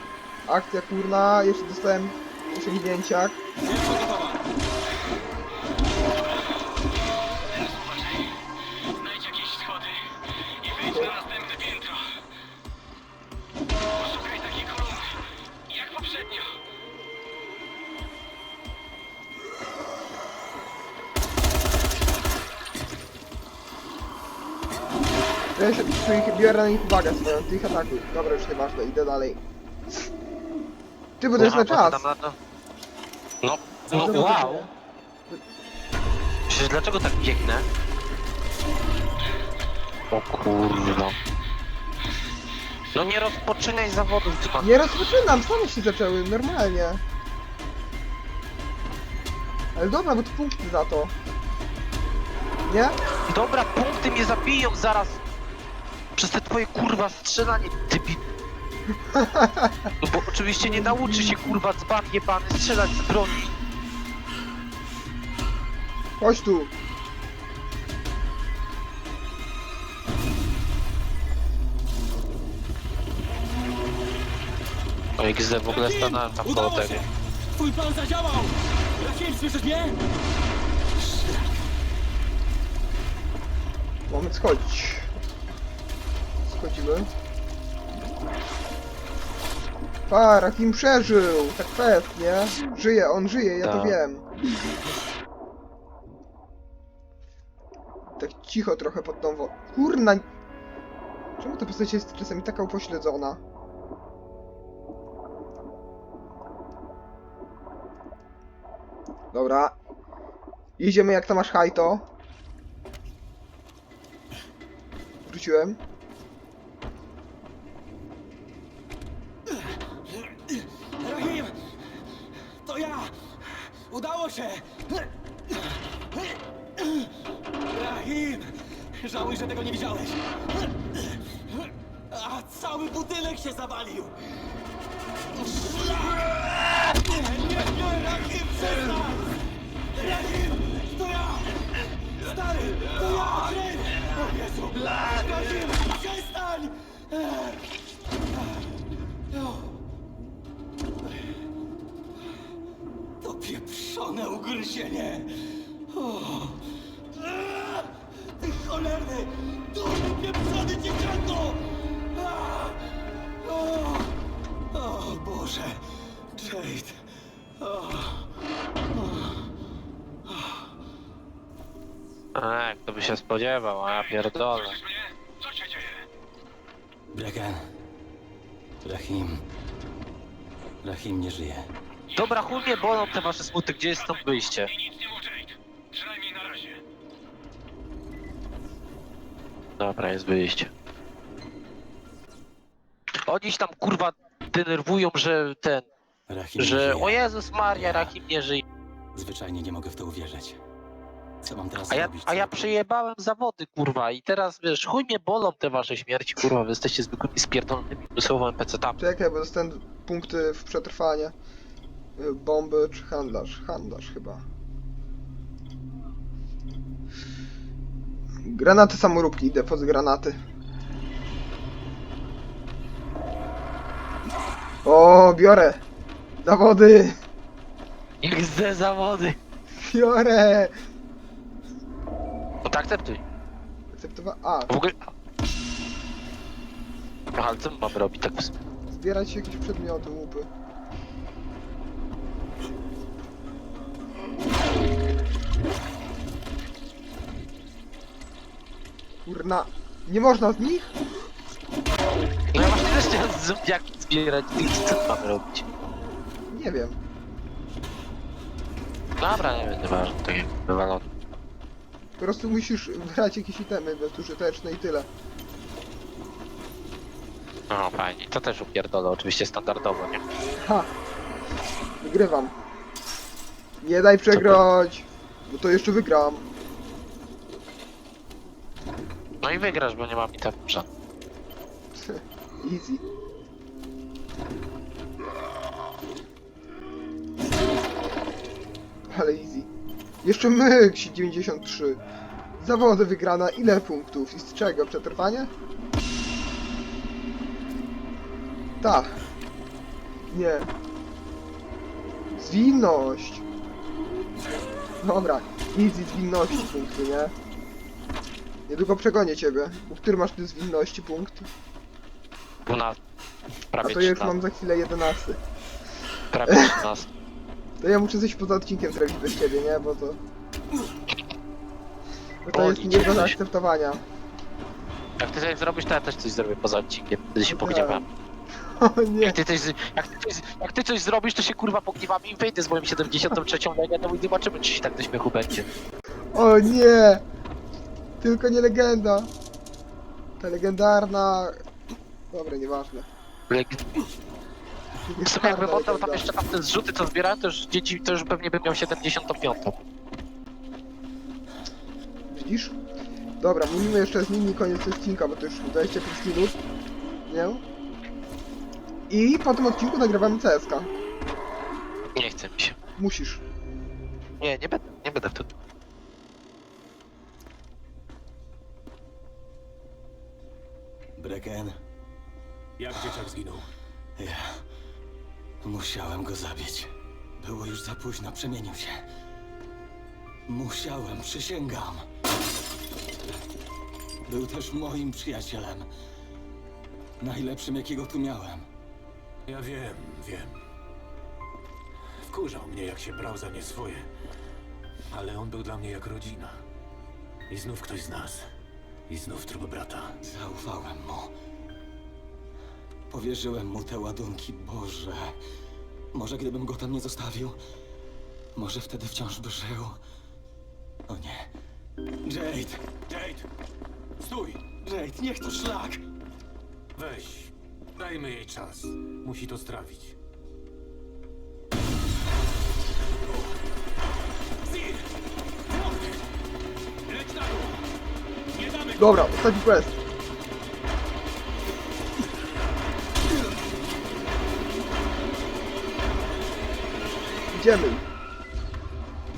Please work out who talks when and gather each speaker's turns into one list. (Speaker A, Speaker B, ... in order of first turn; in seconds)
Speaker A: 0.5-3.4, 10.9-11.2, 25.6-29.4, 31.2-32.0, 33.9-34.7, 44.6-47.0, 49.8-51.1, 52.6-53.0, 59.1-59.9, 60.6-61.6, 66.2-66.7, 84.1-85.1, 86.4-87.1, 90.1-94.2, 98.2-100.3, 101.4-103.4, 109.3-109.8, 110.8-112.0, 115.3-115.8, 209.0-211.3, 212.2-214.4, 218.4-220.4, 224.8-225.8, 226.4-227.2, 229.8-230.7, 233.9-234.7, 238.9-240.5, 249.2-250.9, 256.5-257.0, 262.2-265.1, 270.6-270.9, 272.0-272.5, 273.8-276.5, 281.9-283.0, 289.1-289.7, 290.2-292.0, 292.6-295.5, 298.8-299.2, 300.3-300.7, 302.3-303.4, 305.0-307.3, 308.7-311.5, 313.8-315.4, 316.5-316.8, 317.8-320.2, 322.4-324.0, 327.5-328.1, 328.6-329.4, 336.3-337.2, 338.2-339.3, 340.4-341.6, 342.3-343.1, 345.1-346.3, 352.3-352.8, 353.4-356.6, 357.3-357.6, 359.1-360.9, 363.0-363.4, 429.0-430.0, 437.5-438.1
Speaker B: 3.6-4.4, 75.7-80.0, 81.0-81.5, 119.5-121.6, 122.6-127.1, 127.7-134.2, 135.3-139.4, 139.9-141.5, 142.2-147.6, 148.3-148.7, 149.3-149.7, 153.2-155.3, 155.9-156.6, 157.2-157.9, 158.4-162.8, 163.4-164.1, 164.7-165.8, 166.3-167.0, 167.6-168.3, 168.9-169.5, 170.3-170.7, 177.1-177.6, 178.8-179.4, 180.8-181.7, 196.3-197.2, 197.8-198.2, 199.1-200.6, 201.4-202.7, 371.2-371.8, 374.2-374.6, 375.6-379.1, 380.5-382.1, 384.3-385.9, 387.2-388.7, 400.2-401.3, 403.1-405.4, 406.1-407.6, 408.6-410.0, 411.1-411.5, 412.2-412.9, 414.7-416.0
Speaker C: 7.5-8.3, 9.0-12.1, 13.9-16.5, 173.9-176.1, 182.1-186.8, 425.7-426.2, 428.6-428.9
Speaker D: 31.4-32.4, 33.4-34.7, 36.5-37.7, 40.1-41.2, 42.9-44.8, 53.3-55.2, 56.2-58.2, 60.0-63.5, 75.2-77.0, 93.6-94.0, 172.3-174.8, 182.2-184.7, 189.8-190.7, 193.2-195.9, 196.6-198.6, 201.9-209.0, 228.2-229.4, 232.7-233.2, 234.7-235.1, 237.4-238.5, 252.5-255.7, 259.2-261.0, 267.7-270.2, 274.3-274.6, 279.4-280.9, 312.7-313.0, 313.7-314.4, 316.3-317.1, 322.5-323.4, 325.2-328.1, 329.2-335.7, 343.5-343.8, 345.2-349.8, 362.2-362.8, 364.4-365.5
Speaker E: 372.8-373.7, 389.5-390.5, 392.3-394.1, 395.1-396.6, 397.5-398.4, 399.1-400.2, 413.1-413.4, 414.2-414.5, 417.0-420.1, 424.7-425.0, 427.1-427.7, 428.6-428.9